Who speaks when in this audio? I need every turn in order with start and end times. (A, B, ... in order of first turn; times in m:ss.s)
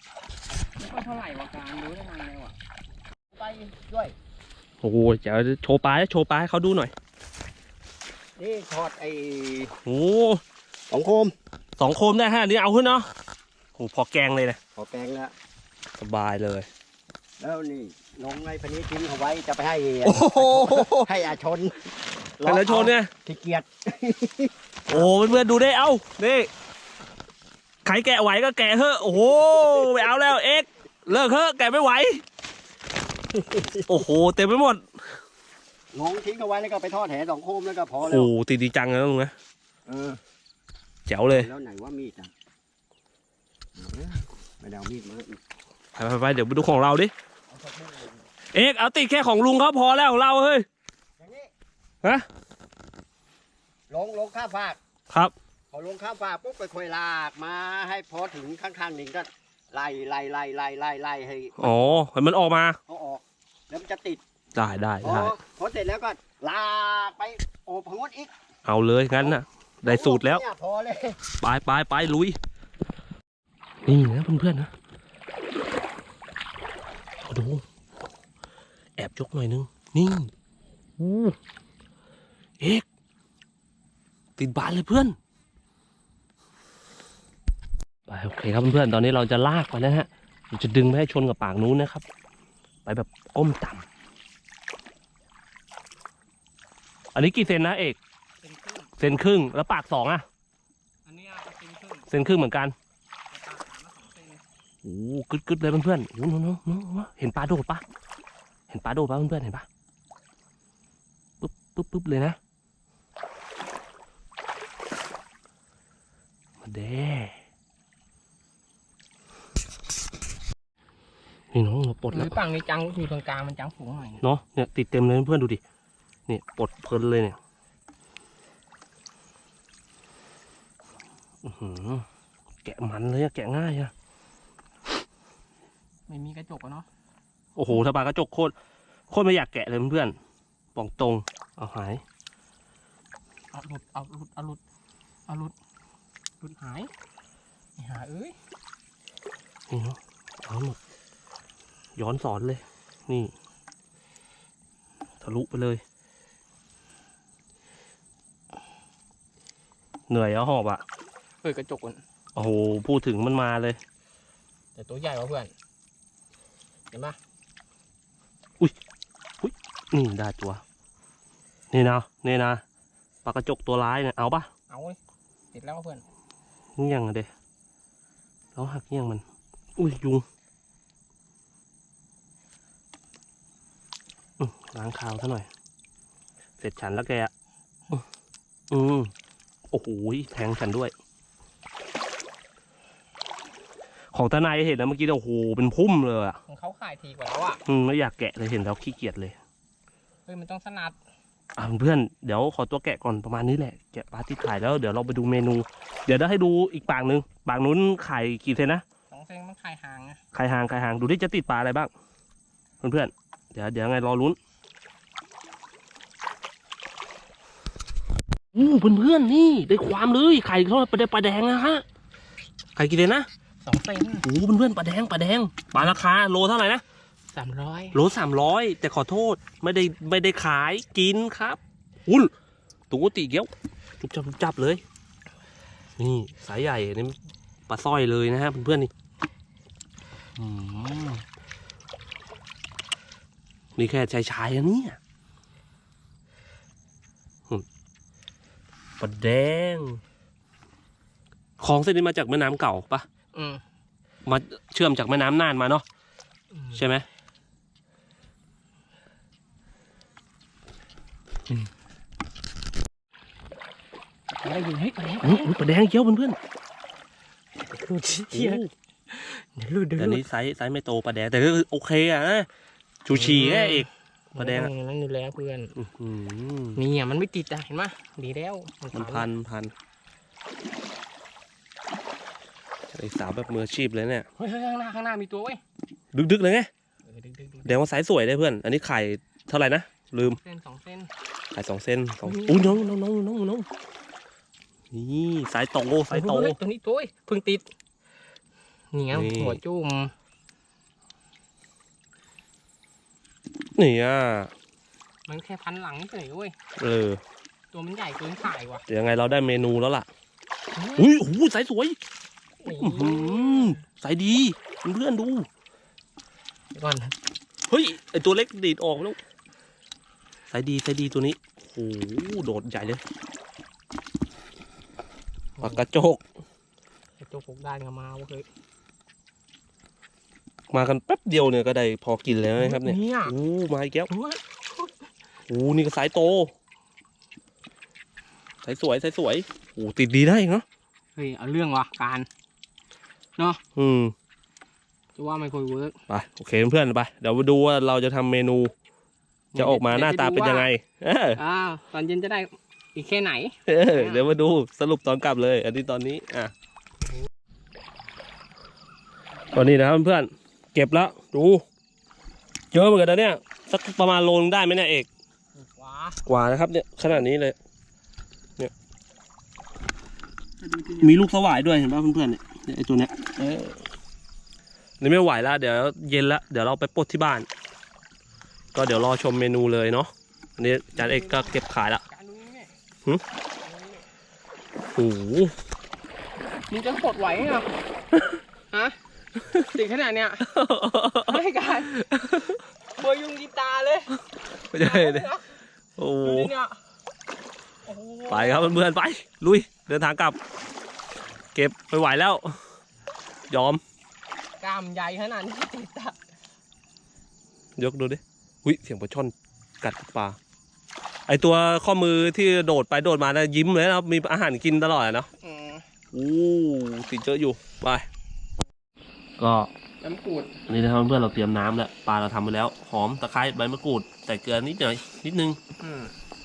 0:00.8-0:02.6 A
0:03.3-0:04.2 B
0:04.8-0:06.9 C
0:08.4-0:09.7 B
0:09.8-0:10.4 C
0:10.9-0:11.3 B
0:11.8-0:13.1 C
0:13.8-0:14.6 C
0:14.8-0:15.3 B
0:16.0-0:16.7 C
0:17.4-0:21.8 B
0:20.0-0:21.0 C
0:22.4-0:25.1 B
0:22.4-0:23.1 C
0:24.9-0:26.5 C
0:27.8-0:32.2 C
0:33.4-0:33.8 B
0:33.9-0:34.8 C
0:35.9-0:38.3 B
0:38.0-0:39.3 C
0:39.9-0:40.2 B
0:41.1-0:41.5 C
0:41.3-0:42.3 B
0:43.8-0:45.4 B
0:46.0-0:47.1 C
0:47.5-0:48.2 B
0:48.5-0:50.6 C
0:51.2-0:51.5 B
0:53.9-0:54.8 B
0:55.7-1:01.7 B
1:01.6-1:02.8 C
1:02.9-1:04.2 B
1:04.5-1:05.3 C
1:05.0-1:08.3 B
1:08.6-1:10.4 C
1:09.2-1:11.2 B
1:11.4-1:12.4 C
1:13.8-1:14.7 C
1:17.2-1:17.6 C
1:19.0-1:20.3 C
1:21.0-1:21.4 C
1:22.6-1:22.8 C
1:24.4-1:25.2 C
1:28.1-1:32.0 C
1:32.8-1:33.8 C
1:37.1-1:38.0 C
1:38.4-1:38.9 A
1:39.0-1:40.2 C
1:41.0-1:42.1 A
1:42.1-1:42.8 C
1:43.3-1:44.4 A
1:44.8-1:47.8 C
1:48.7-1:49.7 C
1:51.4-1:52.4 C
1:56.6-1:57.4 C
2:01.5-2:02.3 C
2:02.1-2:04.2 A
2:04.2-2:05.6 C
2:06.3-2:07.4 C
2:11.4-2:12.0 C
2:12.6-2:13.9 C
2:16.1-2:16.8 A
2:17.6-2:18.5 C
2:19.1-2:20.2 C
2:20.8-2:22.0 C
2:23.5-2:24.6 A
2:25.3-2:25.5 A
2:26.4-2:26.9 A
2:27.8-2:28.4 A
2:29.7-2:30.8 C
2:32.0-2:33.3 C
2:35.2-2:35.8 C
2:40.1-2:40.8 C
2:41.4-2:42.0 A
2:42.3-2:43.8 C
2:44.8-2:45.5 A
2:46.9-2:47.2 A
2:49.4-2:50.6 C
2:51.7-2:52.6 C
2:53.2-2:54.5 C
2:54.7-2:55.0 A
2:55.5-2:56.0 A
2:56.8-2:57.3 C
2:58.5-2:59.2 C
2:59.8-3:00.3 C
3:04.4-3:05.5 C
3:06.6-3:07.3 C
3:08.7-3:09.1 C
3:09.7-3:10.9 C
3:14.1-3:16.4 C
3:16.5-3:17.6 A
3:17.7-3:19.4 C
3:20.3-3:21.0 A
3:21.6-3:28.8 C
3:29.1-3:30.2 A
3:30.3-3:31.9 C
3:32.8-3:34.4 C
3:38.5-3:41.8 C
3:42.8-3:43.3 C
3:43.6-3:44.3 A
3:44.2-3:46.8 C
3:47.3-3:48.0 A
3:47.9-3:52.3 C
3:52.9-3:54.8 C
3:56.0-3:57.2 C
3:57.7-3:58.9 C
4:00.4-4:01.2 C
4:03.8-4:05.0 C
4:09.0-4:10.0 C
4:11.6-4:13.1 C
4:13.3-4:13.6 A
4:14.2-4:15.8 C
4:16.5-4:16.8 A
4:16.7-4:17.0 C
4:24.4-4:25.5 A
4:25.2-4:26.4 C
4:27.6-4:30.2 A
4:28.3-4:28.7 C
4:30.0-4:32.5 C
4:33.0-4:34.7 C
4:33.1-4:35.7 A
4:35.8-4:36.8 C
4:36.8-4:39.3 A
4:38.9-4:39.7 C
4:42.9-4:44.3 C
4:44.4-4:45.6 A
4:46.1-4:46.7 C
4:47.0-4:47.8 A
4:47.6-4:50.4 C
4:50.2-4:51.1 A
4:51.5-4:53.7 C
4:52.2-4:52.8 A
4:54.9-4:56.6 C
4:56.1-4:57.7 A
4:58.9-5:00.1 A
4:59.1-4:59.6 C
5:03.8-5:04.5 C
5:05.2-5:06.6 A
5:06.8-5:07.2 C
5:07.7-5:08.8 A
5:08.9-5:10.1 C
5:10.8-5:11.1 A
5:11.0-5:12.0 C
5:12.6-5:13.8 A
5:12.8-5:15.5 C
5:16.7-5:17.1 A
5:17.7-5:19.2 C
5:20.5-5:23.0 C
5:25.6-5:25.8 A
5:25.6-5:26.2 C
5:27.2-5:28.5 A
5:30.7-5:34.1 C
5:32.6-5:33.4 A
5:34.1-5:34.9 A
5:35.5-5:36.5 C
5:38.6-5:40.6 C
5:41.2-5:42.3 A
5:43.8-5:44.1 C
5:45.2-5:46.0 A
5:46.1-5:48.7 C
5:49.5-5:50.7 A
5:49.6-5:51.4 C
5:51.4-5:54.3 A
5:53.7-5:56.5 C
5:59.5-6:01.6 C
6:02.7-6:05.1 C
6:05.6-6:06.2 A
6:06.2-6:07.6 C
6:10.6-6:11.2 A
6:11.0-6:13.8 C
6:15.0-6:17.5 C
6:18.7-6:22.0 C
6:21.0-6:22.7 A
6:23.6-6:24.1 A
6:25.0-6:25.6 C
6:26.7-6:27.7 A
6:28.7-6:29.0 A
6:29.6-6:30.5 A
6:30.4-6:31.4 C
6:31.2-6:32.0 A
6:31.9-6:32.6 C
6:33.0-6:34.2 A
6:34.7-6:35.3 C
6:34.7-6:35.6 A
6:36.0-6:36.5 C
6:36.2-6:36.8 A
6:37.8-6:38.7 A
6:38.3-6:40.4 C
6:41.5-6:42.6 C
6:43.5-6:43.8 C
6:44.6-6:46.2 A
6:47.8-6:50.4 C
6:51.3-6:55.3 C
6:55.4-6:55.9 A
6:56.1-6:58.1 C
6:59.4-6:59.7 C
7:00.0-7:00.6 A
7:00.7-7:05.6 C
7:05.8-7:06.1 A